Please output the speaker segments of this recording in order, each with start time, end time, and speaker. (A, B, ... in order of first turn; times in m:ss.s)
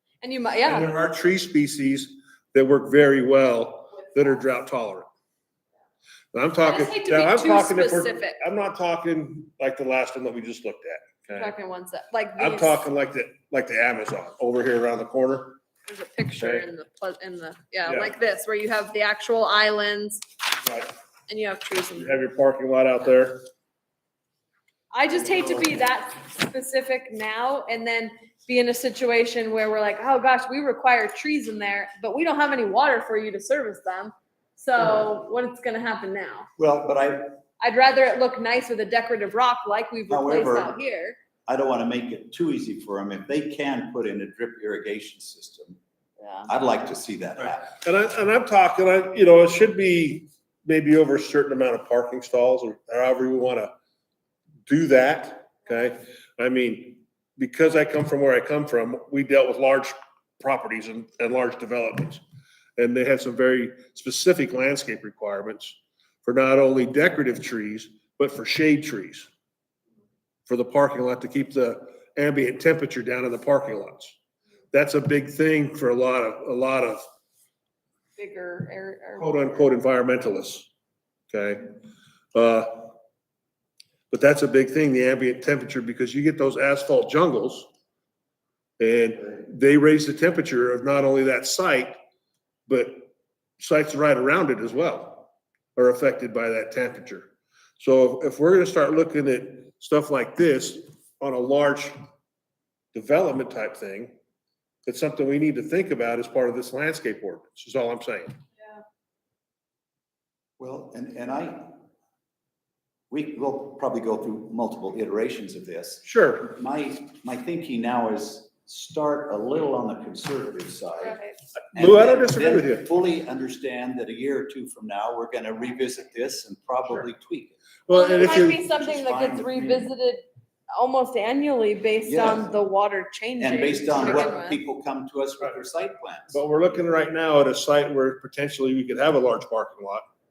0:00.2-0:00.9 A
0:00.6-0:05.1 B
0:06.3-0:11.5 B
0:06.6-0:08.4 A
0:11.3-0:12.8 A
0:12.4-0:15.6 B
0:15.8-0:20.2 A
0:16.4-0:16.6 B
0:17.8-0:18.1 B
0:20.6-0:20.9 B
0:21.3-0:22.2 A
0:22.0-0:23.4 B
0:24.9-0:36.5 A
0:25.2-0:25.7 B
0:36.6-0:37.3 C
0:37.6-0:41.2 A
0:40.1-0:40.7 C
0:41.4-0:45.8 C
0:46.2-0:46.5 A
0:46.5-0:47.6 C
0:47.4-0:53.7 B
0:54.7-1:02.2 B
1:02.8-1:09.3 B
1:10.5-1:14.2 B
1:14.7-1:17.0 B
1:18.2-1:19.5 A
1:19.2-1:20.7 B
1:21.3-1:21.6 B
1:22.3-1:22.9 B
1:24.1-1:27.7 B
1:28.8-1:32.0 B
1:32.7-1:41.9 B
1:42.9-1:44.1 B
1:44.8-1:48.4 B
1:50.6-1:51.7 C
1:53.1-2:01.2 C
1:56.0-1:56.5 B
2:01.0-2:01.4 A
2:01.6-2:02.9 B
2:01.7-2:07.6 C
2:07.9-2:08.6 B
2:07.9-2:14.6 A
2:08.1-2:09.9 C
2:12.0-2:12.5 C
2:13.4-2:16.4 C
2:16.3-2:20.0 B